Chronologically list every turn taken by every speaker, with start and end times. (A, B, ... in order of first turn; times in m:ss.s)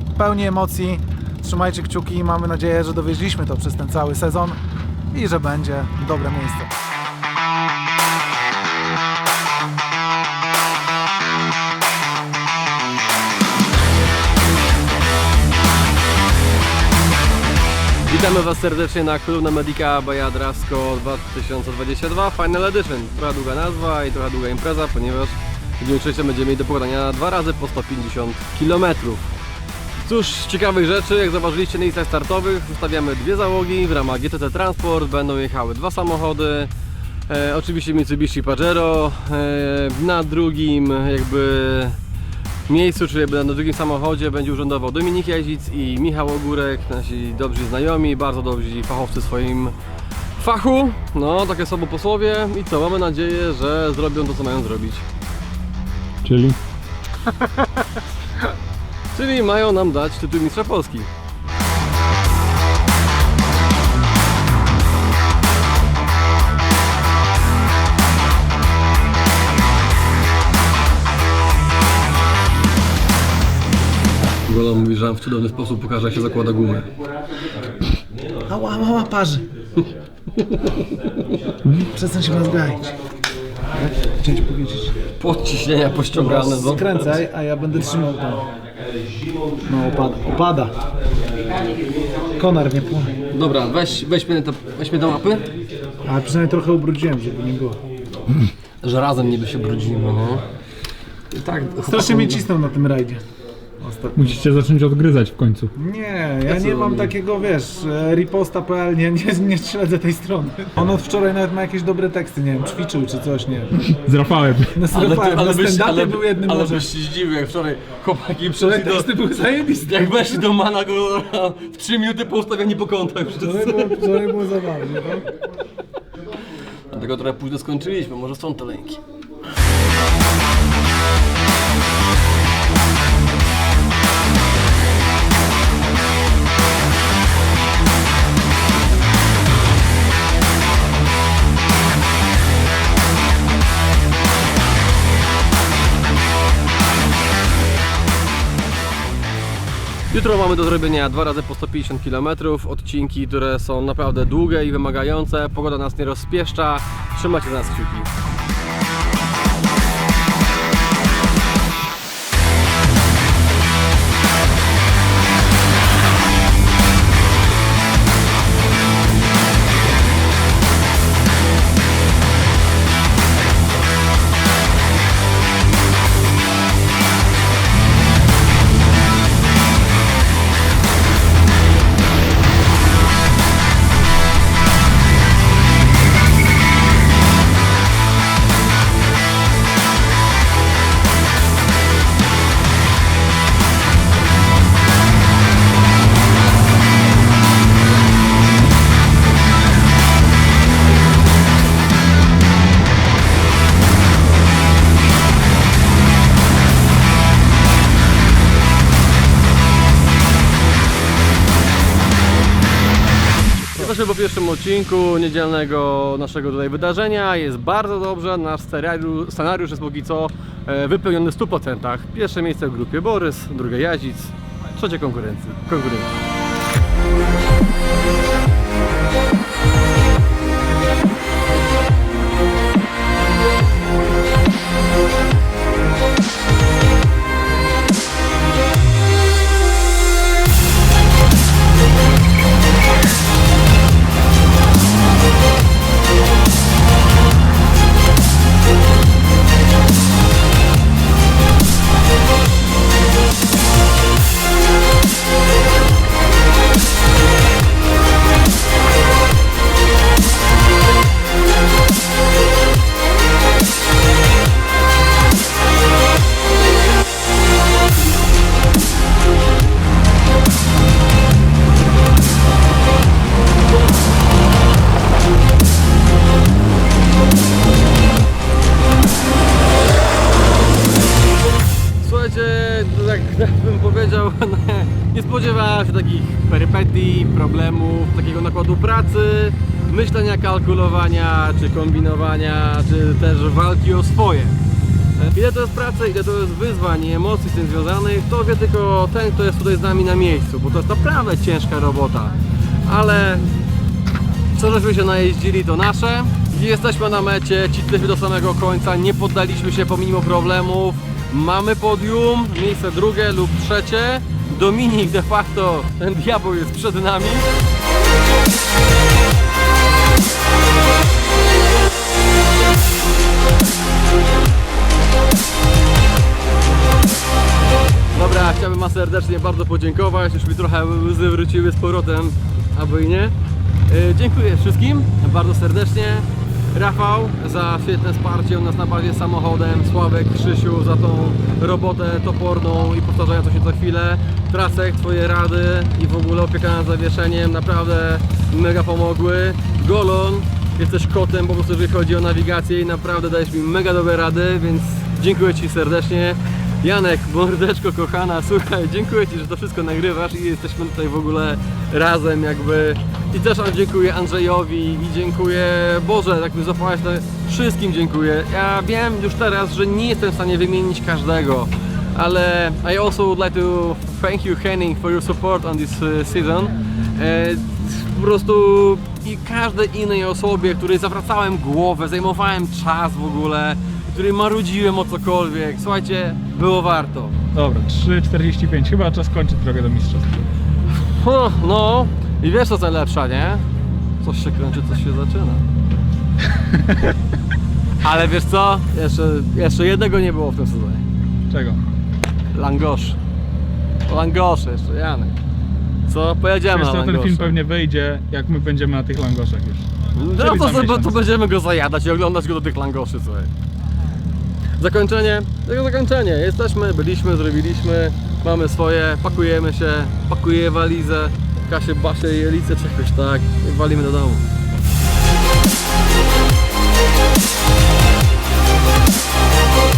0:00.1-0:04.6 A
0:05.1-0:06.7 A
0:18.1-0:29.3 B
0:30.0-0:36.7 B
0:37.3-0:42.0 B
0:42.7-0:49.7 B
0:50.4-0:55.0 B
0:56.2-0:56.6 C
0:59.1-1:01.1 B
1:14.5-1:16.9 B
1:18.5-1:19.5 A
1:21.7-1:23.0 A
1:23.7-1:25.0 A
1:25.2-1:27.2 B
1:26.1-1:28.5 A
1:29.6-1:30.7 A
1:32.3-1:33.2 A
1:33.3-1:35.5 B
1:36.0-1:37.8 A
1:38.8-1:40.4 B
1:41.3-1:42.4 B
1:41.8-1:43.2 A
1:43.8-1:44.4 A
1:44.2-1:45.7 C
1:45.8-1:53.7 A
1:46.5-1:47.1 B
1:53.8-1:54.8 C
1:54.7-1:56.8 A
1:54.9-2:04.2 B
1:58.6-2:00.2 A
2:03.3-2:05.2 A
2:06.9-2:09.0 B
2:30.1-2:38.1 B
3:33.8-3:46.2 B
4:42.0-4:54.6 B
4:55.2-5:03.5 B
5:04.5-5:17.5 B
5:28.1-5:33.3 B
5:33.9-6:27.4 B
6:27.5-6:30.4 C
6:30.9-6:33.6 B
6:34.2-6:35.6 B
6:38.0-6:41.0 B
6:41.5-6:41.8 C
6:42.5-6:43.2 B
6:44.1-6:45.3 B
6:46.1-6:47.6 B
6:46.7-6:51.2 C
6:50.1-6:53.5 B
6:54.8-7:04.5 B